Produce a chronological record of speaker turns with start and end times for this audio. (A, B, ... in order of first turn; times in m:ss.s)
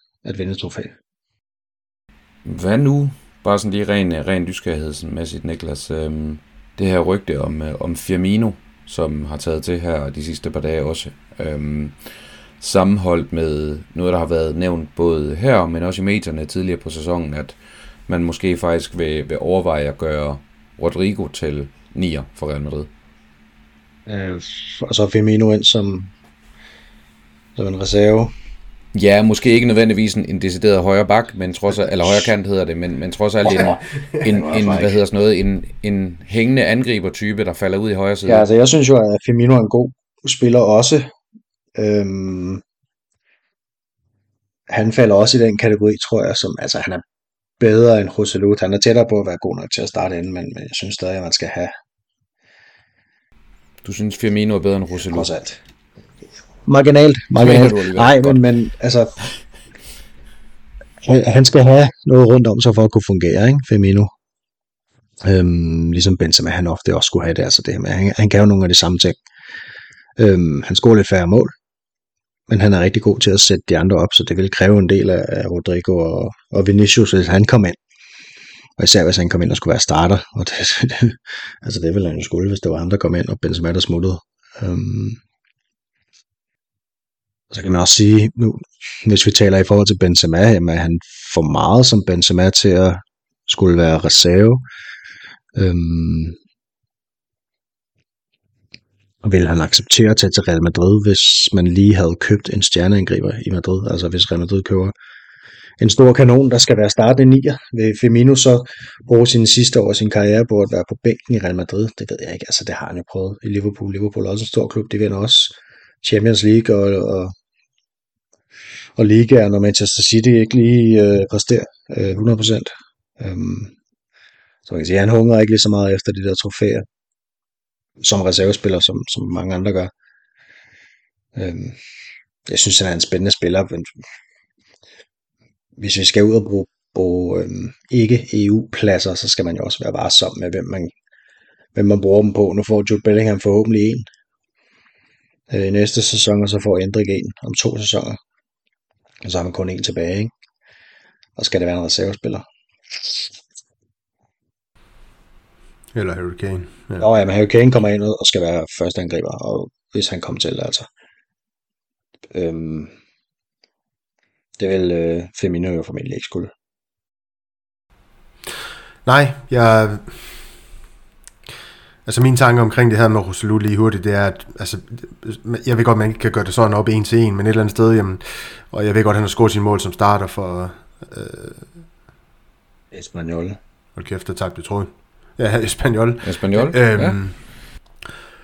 0:00.2-0:01.0 A
0:02.4-0:11.9 B
0:12.6-0:22.9 B
0:24.0-0:26.1 A
0:27.6-0:28.3 A
0:28.9-0:38.4 B
0:32.0-0:32.3 A
0:33.4-0:35.0 A
0:38.2-0:41.1 A
0:41.8-0:42.6 A
0:44.7-0:47.0 A
0:47.6-0:51.7 A
0:53.8-0:55.3 B
0:55.0-0:55.6 A
0:56.6-0:59.2 A
0:57.4-0:58.4 B
1:01.0-1:04.1 A
1:05.2-1:09.2 A
1:10.2-1:11.5 A
1:12.5-1:17.8 A
1:18.8-1:25.2 A
1:27.5-1:34.6 A
1:35.6-1:36.4 A
1:39.2-1:44.9 A
1:45.8-1:57.3 A
1:59.0-2:03.7 A
2:04.6-2:06.8 A
2:08.0-2:09.9 A
2:11.4-2:11.8 A
2:12.5-2:14.0 A
2:15.8-2:20.9 A
2:21.7-2:24.0 A
2:25.5-2:28.2 A
2:29.2-2:30.3 A
2:31.4-2:33.3 A
2:35.9-2:37.0 C
2:37.0-2:40.9 A
2:42.3-2:42.9 A
2:44.6-2:46.5 A
2:49.0-2:50.4 C
2:52.0-3:01.7 C
3:02.9-3:03.6 A
3:04.0-3:07.4 C
3:06.2-3:07.2 B